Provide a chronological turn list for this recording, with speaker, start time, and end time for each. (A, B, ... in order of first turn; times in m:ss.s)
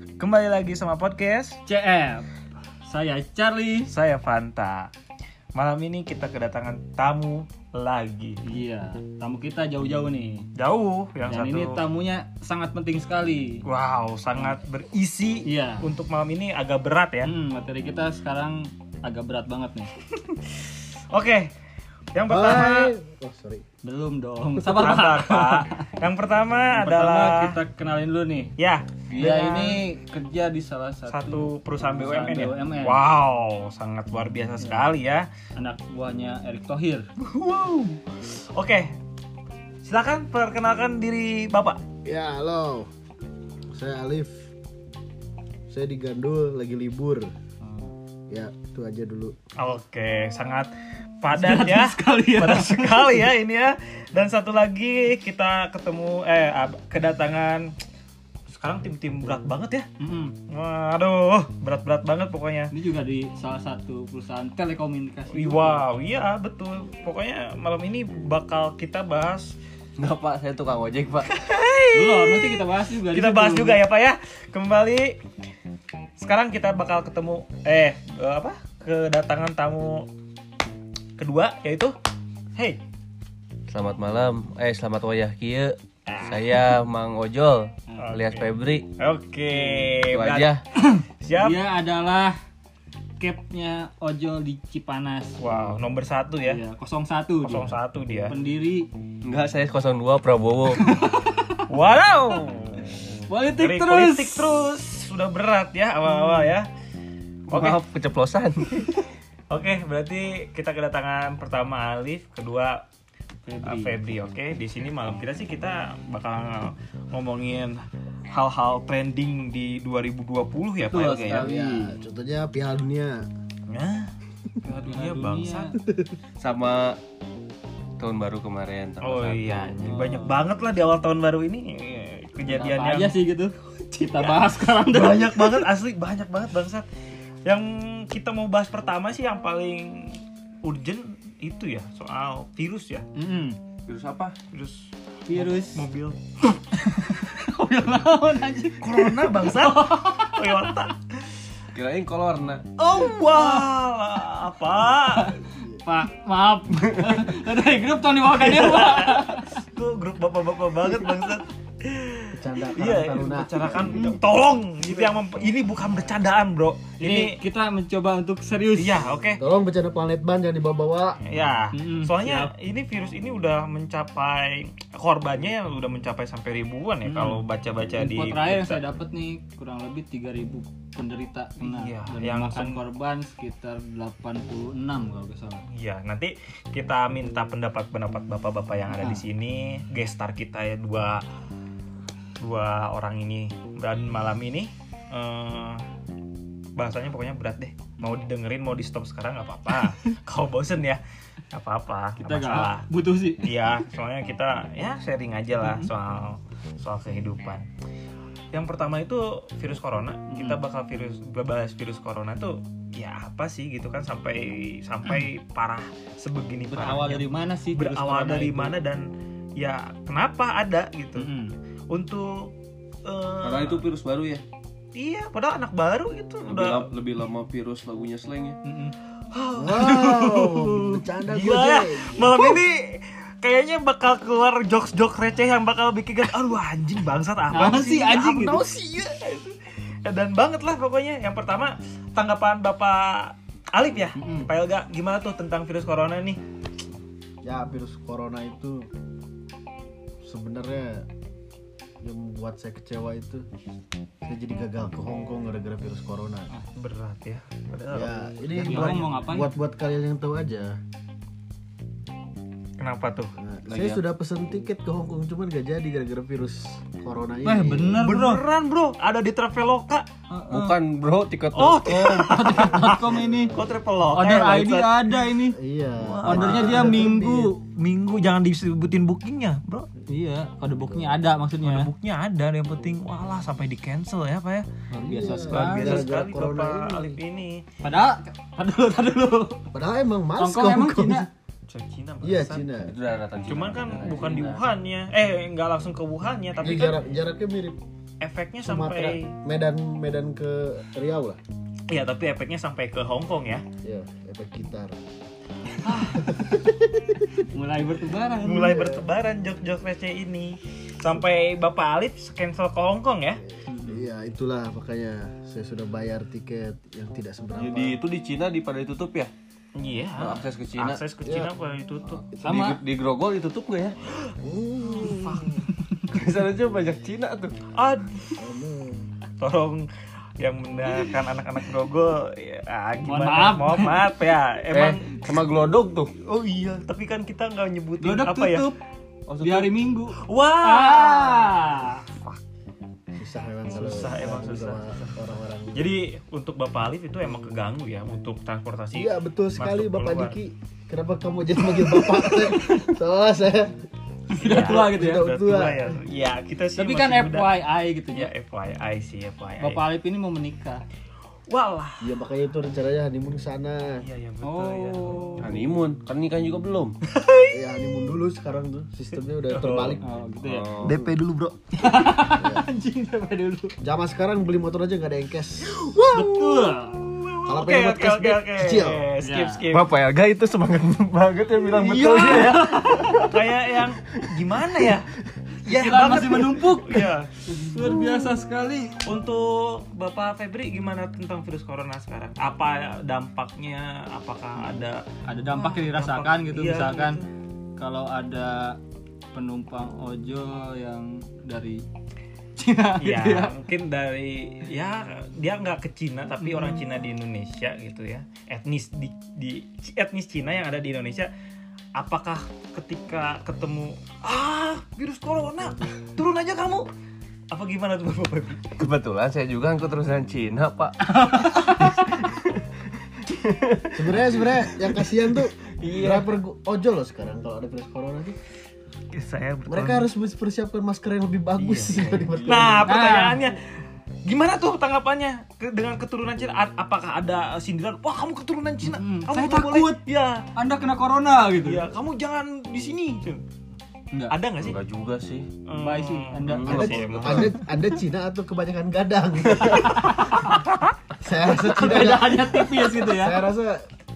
0:00.2-0:01.6 A
0:01.7-0:02.3 B
0:02.8-0:03.9 B
0:03.9-0:04.9 A
0:05.6-0:08.4 A
0:08.4-0:10.5 B
0:10.6-0:11.8 A
0:11.3-0:13.6 B
0:13.6-0:17.3 A
0:15.4-0:15.8 B
0:17.2-0:19.9 B
0:20.3-0:21.5 A
0:22.1-0:22.9 A
0:22.3-0:23.6 C
0:23.8-0:25.9 B
0:24.6-0:27.6 A
0:26.7-0:28.5 B
0:28.6-0:29.8 A
0:29.1-0:33.0 B
0:31.1-0:35.3 A
0:35.6-0:37.1 B
0:37.2-0:38.9 A
0:39.8-0:41.8 A
0:42.0-0:42.9 C
0:43.7-0:44.5 C
0:45.7-0:47.3 C
0:47.6-0:47.9 B
0:48.3-0:49.4 C
0:49.6-0:50.7 A
0:51.2-0:57.7 A
0:51.3-0:53.3 B
0:58.5-0:59.9 A
1:00.0-1:00.4 B
1:00.5-1:02.7 A
1:02.7-1:05.8 B
1:05.3-1:09.6 A
1:10.0-1:11.3 D
1:11.3-1:15.2 A
1:11.9-1:13.8 B
1:16.2-1:20.1 A
1:21.2-1:21.9 A
1:23.7-1:28.9 D
1:26.1-1:26.6 A
1:27.9-1:28.2 B
1:28.0-1:30.5 A
1:29.6-1:29.9 B
1:30.1-1:30.6 D
1:30.8-1:32.4 B
1:31.2-1:31.6 A
1:33.2-1:35.8 B
1:35.4-1:36.6 A
1:36.4-1:37.7 B
1:37.4-1:38.3 A
1:38.3-1:38.9 B
1:39.2-1:40.9 D
1:40.8-1:41.6 B
1:41.7-1:46.7 A
1:43.3-1:44.6 B
1:47.5-1:49.0 D
1:47.5-1:47.8 A
1:49.5-1:52.8 A
1:53.5-1:54.0 B
1:53.6-2:01.5 A
2:00.9-2:02.0 B
2:01.3-2:03.2 C
2:03.7-2:04.1 A
2:04.6-2:05.8 A
2:04.6-2:05.8 B
2:06.4-2:07.0 D
2:08.0-2:09.8 D
2:09.0-2:13.2 A
2:09.8-2:10.4 B
2:12.4-2:15.7 B
2:14.0-2:16.9 A
2:17.4-2:23.0 A
2:23.2-2:23.6 B
2:23.9-2:24.4 D
2:24.5-2:26.2 A
2:25.3-2:25.9 B
2:26.7-2:30.7 B
2:28.8-2:31.3 A
2:31.7-2:32.7 D
2:32.8-2:35.4 A
2:33.0-2:33.7 B
2:35.1-2:39.6 B
2:35.6-2:35.8 C
2:38.4-2:47.4 A
2:42.3-2:44.2 C
2:47.0-2:49.0 B
2:48.8-2:49.4 A
2:49.4-2:51.2 C
2:51.2-2:58.8 A
2:51.7-2:52.5 B
2:57.1-2:57.4 B
2:58.0-3:05.7 B
3:01.6-3:02.8 A
3:05.7-3:11.2 A
3:09.0-3:09.2 B
3:12.4-3:15.8 A
3:16.8-3:21.0 A
3:21.5-3:27.7 A
3:22.2-3:23.5 B
3:25.6-3:25.9 B
3:28.5-3:39.0 A
3:30.3-3:30.6 B
3:36.7-3:38.8 B
3:39.6-3:41.3 A
3:41.2-3:41.5 B
3:41.9-3:42.5 A
3:43.0-3:43.9 A
3:43.4-3:44.4 D
3:45.0-3:46.9 A
3:46.5-3:48.6 D
3:48.6-3:49.0 B
3:49.3-4:06.4 A
3:49.5-3:52.6 C
3:57.5-3:58.6 B
4:04.2-4:04.5 B
4:07.4-4:08.9 C
4:10.2-4:11.1 C
4:12.0-4:13.5 C
4:14.2-4:16.5 C
4:16.8-4:19.0 A
4:17.9-4:20.8 C
4:18.6-4:19.6 B
4:22.8-4:23.3 A
4:23.4-4:28.1 C
4:23.7-4:24.0 D
4:27.4-4:28.4 B
4:28.0-4:30.1 A
4:30.3-4:30.8 B
4:30.5-4:32.7 D
4:31.5-4:35.2 A
4:32.2-4:33.6 B
4:33.3-4:33.6 C
4:34.1-4:35.6 B
4:35.5-4:37.5 C
4:36.0-4:39.9 A
4:36.3-4:37.6 B
4:40.1-4:41.9 B
4:41.6-4:44.7 A
4:44.9-4:47.2 C
4:45.0-4:46.1 B
4:45.5-4:47.6 A
4:47.8-4:49.6 B
4:49.7-4:51.3 C
4:50.4-4:51.3 B
4:51.7-4:52.6 A
4:52.2-4:52.9 C
4:52.8-4:54.6 D
4:53.5-4:57.0 A
4:56.6-4:57.8 C
4:58.2-4:59.3 A
4:58.6-5:01.4 C
5:01.9-5:03.6 A
5:03.8-5:05.0 C
5:05.8-5:06.5 B
5:06.2-5:07.3 C
5:07.4-5:08.9 B
5:08.4-5:13.4 A
5:13.7-5:14.0 B
5:13.7-5:18.0 C
5:17.6-5:19.3 D
5:19.8-5:22.2 A
5:20.2-5:21.0 D
5:21.2-5:21.5 C
5:22.3-5:24.0 D
5:22.4-5:22.8 B
5:24.4-5:25.7 C
5:24.8-5:25.7 A
5:26.1-5:27.6 D
5:27.7-5:28.5 A
5:28.4-5:29.1 C
5:29.4-5:29.9 A
5:30.4-5:35.4 A
5:33.1-5:34.1 B
5:34.7-5:36.1 D
5:36.2-5:38.7 A
5:38.0-5:38.8 B
5:39.3-5:39.7 D
5:39.4-5:42.0 B
5:40.1-5:42.4 A
5:43.2-5:45.9 C
5:43.7-5:50.4 A
5:48.9-5:53.8 C
5:52.1-5:52.8 B
5:54.3-5:55.3 B
5:54.4-5:55.9 C
5:54.4-5:57.6 A
5:56.8-5:58.3 B
5:58.1-5:59.8 A
5:59.6-6:00.8 B
6:01.5-6:02.1 A
6:02.0-6:04.0 C
6:04.0-6:05.7 A
6:04.4-6:05.5 B
6:05.4-6:07.0 D
6:07.0-6:07.6 A
6:07.5-6:10.0 C
6:09.5-6:10.0 A
6:10.0-6:10.8 B
6:10.4-6:11.0 D
6:10.8-6:11.2 C
6:10.9-6:12.1 A
6:11.8-6:13.8 B
6:12.3-6:12.6 C
6:13.8-6:15.9 C
6:15.6-6:19.9 A
6:16.1-6:17.0 B
6:17.4-6:19.0 C
6:19.2-6:19.6 B
6:19.7-6:23.4 D
6:21.8-6:23.2 B
6:21.9-6:25.1 A
6:25.6-6:27.3 A
6:25.7-6:29.0 B
6:29.0-6:37.3 A
6:35.2-6:37.2 B
6:37.8-6:38.8 B
6:39.3-6:41.8 B
6:42.6-6:43.5 B
6:43.0-6:51.3 A
6:46.4-6:46.8 B
6:52.0-6:56.9 A
6:57.5-6:58.8 A
6:58.8-7:02.6 D
7:01.0-7:02.0 B
7:03.2-7:06.3 D
7:03.9-7:08.4 C
7:05.9-7:06.2 A
7:09.1-7:10.1 A
7:09.7-7:12.9 C
7:11.6-7:13.6 A
7:12.4-7:12.6 D
7:12.8-7:13.4 B
7:14.2-7:20.4 A
7:18.8-7:20.0 B
7:20.6-7:21.9 B
7:21.6-7:23.4 A
7:24.3-7:24.8 A
7:24.6-7:25.5 D
7:25.7-7:27.6 A
7:25.8-7:27.5 B
7:26.5-7:27.5 D
7:26.7-7:30.2 C
7:29.9-7:30.6 B
7:30.1-7:30.6 A
7:31.2-7:33.8 C
7:31.4-7:33.4 B